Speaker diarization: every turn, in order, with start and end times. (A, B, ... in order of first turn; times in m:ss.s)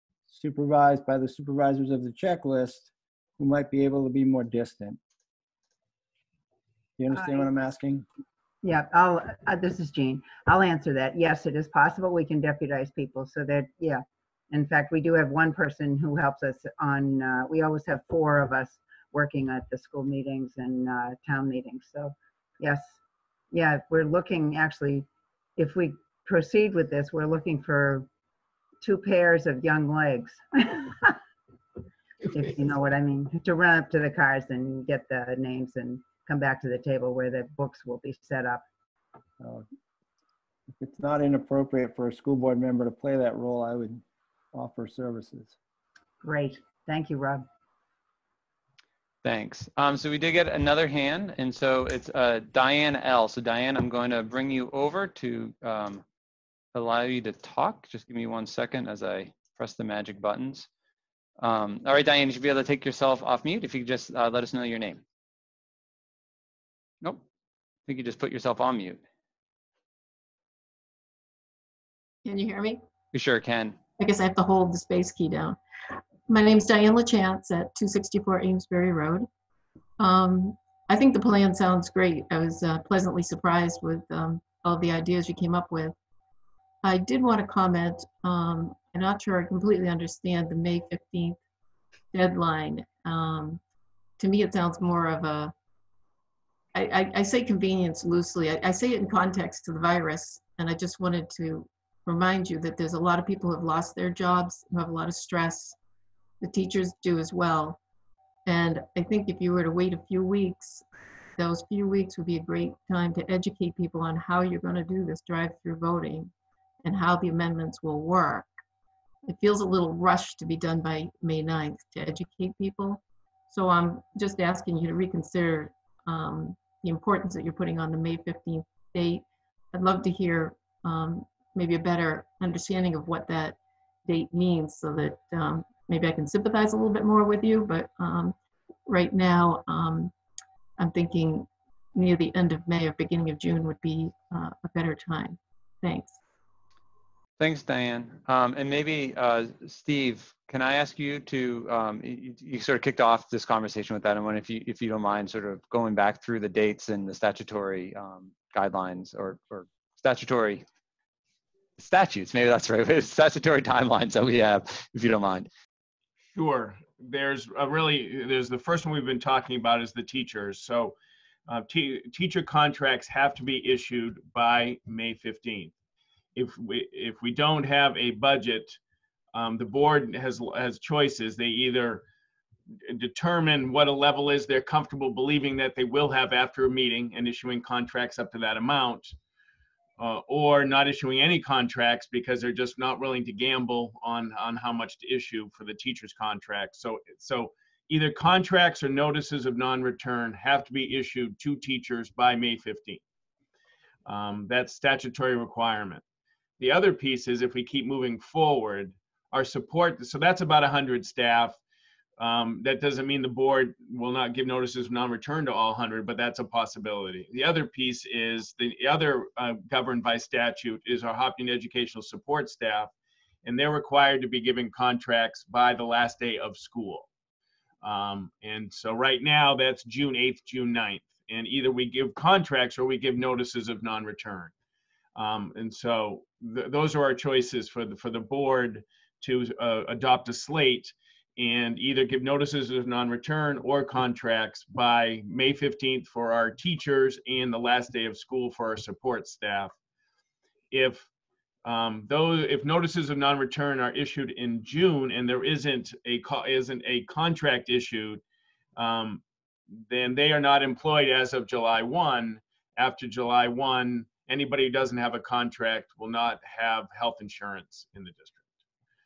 0:00.3-0:05.0 A
0:07.0-0:08.0 A
0:07.1-0:07.5 B
0:08.6-0:23.0 B
0:23.5-0:25.1 B
0:25.6-0:28.1 B
0:28.8-0:31.2 B
0:32.3-0:38.6 B
0:39.4-0:39.6 A
0:40.8-0:45.6 A
0:46.2-0:47.4 B
0:49.2-0:56.0 C
0:56.7-1:00.7 C
1:01.4-1:05.0 C
1:07.9-1:09.0 C
1:12.2-1:12.8 D
1:13.1-1:13.8 C
1:14.0-1:19.3 D
1:20.0-1:26.0 D
1:26.8-1:31.4 D
1:32.1-1:33.6 D
1:34.2-1:35.5 D
1:36.7-1:45.8 D
1:46.4-1:47.8 D
1:48.4-1:50.8 D
1:51.4-1:56.3 D
1:56.8-1:58.5 D
1:59.2-2:20.1 D
2:20.8-2:26.2 D
2:27.4-2:40.6 C
2:41.8-2:45.5 C
2:46.3-2:51.0 E
2:51.5-2:55.7 E
2:56.4-2:58.8 E
2:59.3-3:02.0 E
3:02.8-3:09.2 E
3:10.0-3:23.0 E
3:24.0-3:26.0 E
3:26.6-3:31.6 E
3:32.2-3:42.9 E
3:43.4-3:47.1 E
3:47.8-3:54.5 E
3:55.2-4:09.7 E
4:10.7-4:11.1 E
4:11.6-4:18.2 E
4:18.8-4:19.2 E
4:19.8-4:28.4 E